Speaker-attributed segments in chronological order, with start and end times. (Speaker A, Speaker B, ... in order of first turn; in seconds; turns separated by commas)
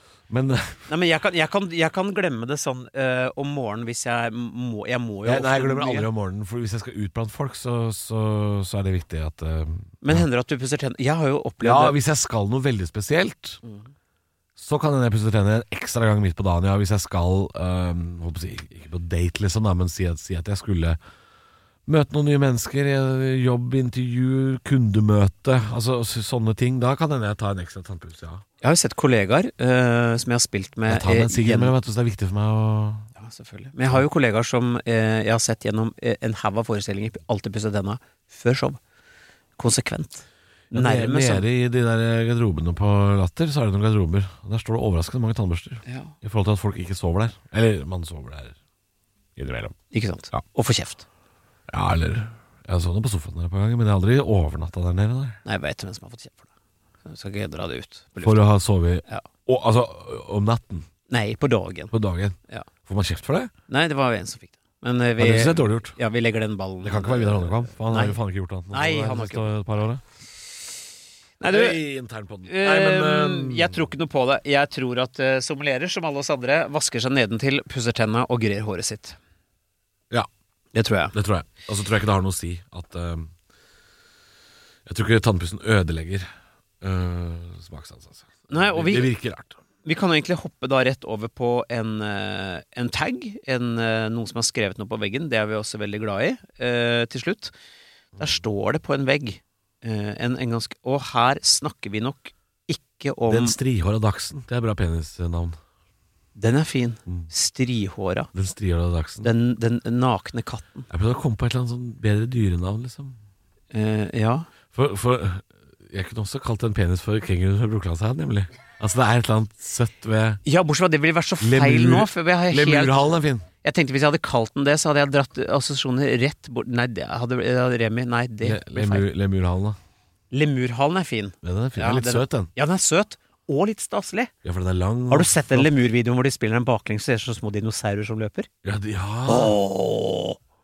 Speaker A: 0.3-0.9, Speaker B: 0.9-6.1, Speaker A: 5.2-10.2, Speaker B: 10.0-12.0, Speaker A: 11.6-13.6, Speaker B: 13.6-13.9, Speaker A: 14.6-21.0, Speaker A: 21.9-28.4, Speaker B: 28.6-31.7, Speaker A: 30.9-33.1, Speaker B: 33.1-38.8, Speaker B: 39.6-41.4, Speaker A: 40.7-48.5, Speaker B: 45.8-46.1, Speaker A: 49.4-49.8, Speaker B: 49.9-51.0, Speaker A: 51.7-55.4, Speaker B: 55.4-56.5, Speaker B: 57.0-58.5, Speaker A: 58.2-60.9, Speaker B: 61.1-61.9, Speaker A: 61.9-63.5, Speaker B: 63.7-68.2, Speaker A: 65.2-66.0, Speaker A: 66.8-70.0, Speaker B: 68.7-69.5, Speaker B: 71.4-71.8, Speaker A: 71.5-73.8, Speaker B: 72.5-79.2, Speaker B: 80.7-81.1, Speaker A: 81.1-83.3, Speaker A: 84.8-86.3, Speaker A: 86.8-89.6, Speaker B: 88.5-89.1, Speaker B: 89.8-97.5, Speaker B: 98.2-103.6, Speaker A: 103.3-105.5, Speaker B: 106.3-108.3, Speaker A: 108.3-109.3, Speaker B: 109.2-110.9, Speaker A: 110.9-113.2, Speaker B: 113.7-114.5, Speaker A: 114.7-120.4, Speaker B: 120.4-123.0, Speaker A: 121.4-123.5, Speaker B: 123.6-129.1, Speaker A: 128.4-129.8, Speaker B: 130.3-134.3, Speaker A: 131.4-132.5, Speaker A: 134.4-135.7, Speaker B: 135.1-138.5, Speaker A: 138.6-139.6, Speaker B: 139.3-140.4